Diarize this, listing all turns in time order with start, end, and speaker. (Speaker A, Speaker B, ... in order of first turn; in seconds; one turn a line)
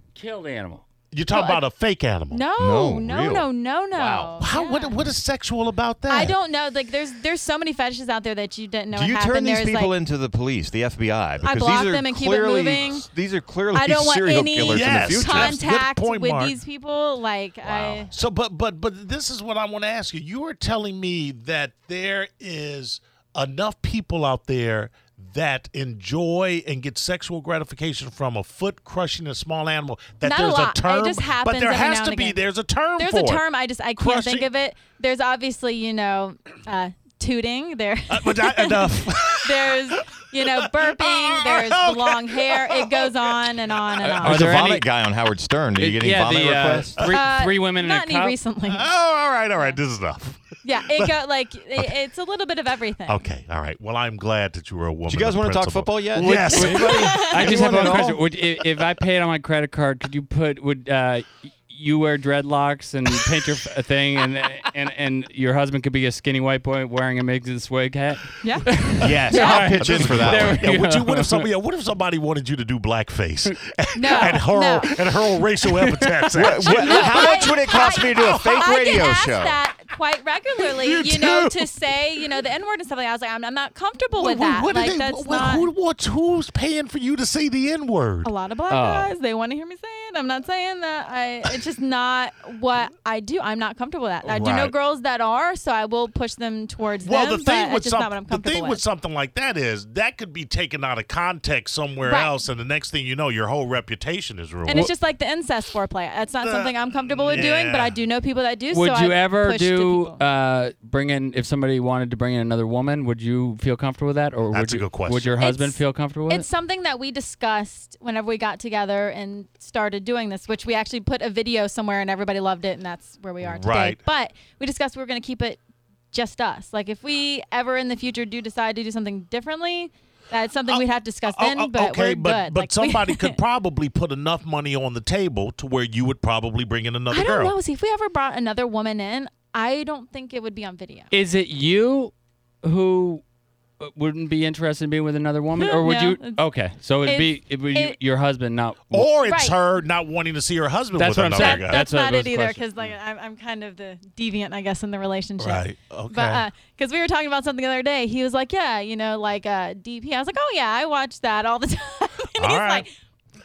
Speaker A: 0.1-0.8
Speaker B: 1.1-2.4
Speaker C: 1.3-1.6
Speaker C: 2.3-5.0
Speaker D: 2.6-4.4
Speaker B: 4.4-6.3
Speaker C: 6.1-9.9
Speaker D: 8.9-15.6
Speaker C: 11.4-13.1
Speaker C: 13.7-18.1
Speaker B: 14.6-16.6
Speaker D: 17.6-18.0
Speaker B: 18.1-33.4
Speaker C: 30.2-32.4
Speaker C: 33.0-44.6
Speaker B: 34.0-34.5
Speaker B: 38.1-40.0
Speaker B: 40.8-43.0
Speaker A: 44.0-44.9
Speaker D: 44.2-47.0
Speaker A: 45.7-48.4
Speaker C: 47.1-48.9
Speaker B: 48.7-51.1
Speaker C: 50.6-53.2
Speaker B: 53.1-57.0
Speaker D: 55.1-58.2
Speaker A: 56.1-71.5
Speaker C: 56.6-58.0
Speaker C: 68.4-68.7
Speaker D: 69.0-70.6
Speaker C: 69.3-69.7
Speaker B: 69.7-78.7
Speaker C: 73.9-75.0
Speaker D: 76.3-79.6
Speaker C: 76.6-85.7
Speaker B: 80.6-81.7
Speaker B: 84.2-88.3
Speaker C: 88.2-98.8
Speaker A: 88.7-89.1
Speaker B: 94.2-94.7
Speaker B: 97.0-104.9
Speaker C: 102.0-102.3
Speaker C: 104.6-110.2
Speaker B: 106.4-108.0
Speaker A: 108.7-116.5
Speaker B: 114.5-115.3
Speaker C: 115.4-125.6
Speaker B: 123.4-124.0
Speaker C: 126.1-133.4
Speaker B: 130.7-137.5
Speaker C: 137.1-141.1
Speaker A: 141.1-143.2
Speaker A: 143.8-149.1
Speaker C: 145.6-146.4
Speaker C: 147.0-148.0
Speaker B: 148.9-151.8
Speaker C: 149.2-149.6
Speaker A: 150.9-152.9
Speaker C: 151.3-162.9
Speaker B: 155.4-156.4
Speaker B: 162.4-162.8